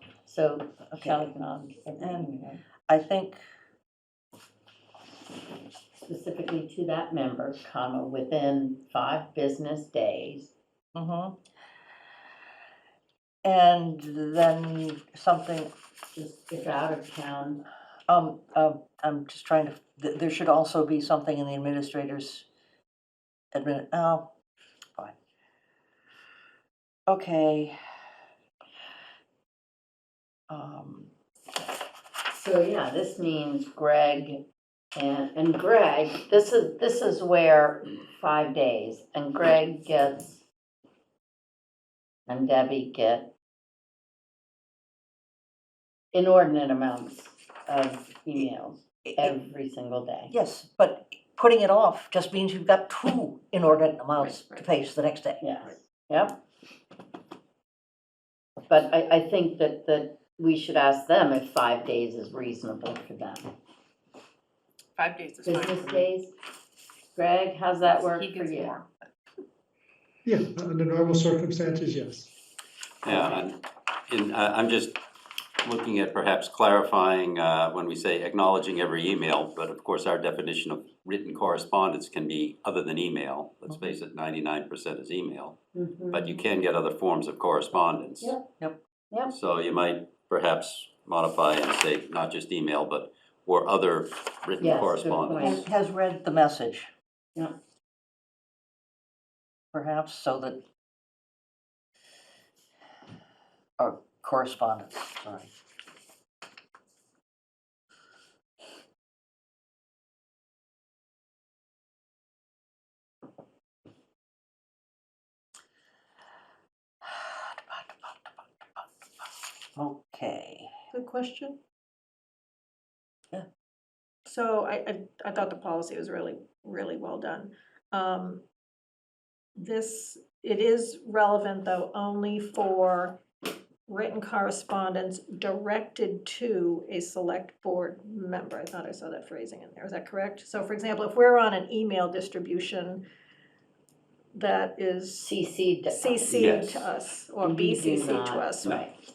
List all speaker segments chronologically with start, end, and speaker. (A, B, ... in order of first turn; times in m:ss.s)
0:00.3-0:02.6 A
0:00.9-0:01.3 B
0:02.0-0:03.4 B
0:06.0-0:10.5 A
0:11.0-0:11.4 B
0:13.4-0:15.7 B
0:16.2-0:17.6 A
0:18.1-0:22.5 B
0:23.5-0:24.3 B
0:27.1-0:27.8 B
0:30.5-0:31.1 B
0:32.3-0:34.4 A
0:35.0-0:40.4 A
0:42.3-0:43.3 A
0:46.1-0:50.3 A
0:49.0-0:49.3 B
0:50.3-0:55.4 B
0:54.2-0:54.6 C
0:55.4-0:56.4 A
0:58.7-1:03.5 A
1:05.0-1:06.1 D
1:05.4-1:06.4 A
1:07.1-1:08.8 A
1:07.9-1:08.9 D
1:10.2-1:12.3 E
1:13.0-1:15.0 F
1:15.6-1:25.6 F
1:23.7-1:24.0 B
1:25.7-1:26.4 A
1:26.1-1:28.4 F
1:28.2-1:28.5 A
1:29.3-1:35.6 F
1:34.6-1:35.7 A
1:35.4-1:36.9 B
1:39.7-1:40.6 B
1:43.8-1:45.5 B
1:57.0-1:58.8 B
1:59.8-2:00.7 B
2:00.9-2:01.6 C
2:04.2-2:08.4 C
2:09.6-2:13.2 C
2:13.9-2:23.0 C
2:24.3-2:25.3 C
2:25.2-2:26.7 A
2:25.9-2:28.9 C
2:26.3-2:26.9 F
2:27.4-2:29.0 A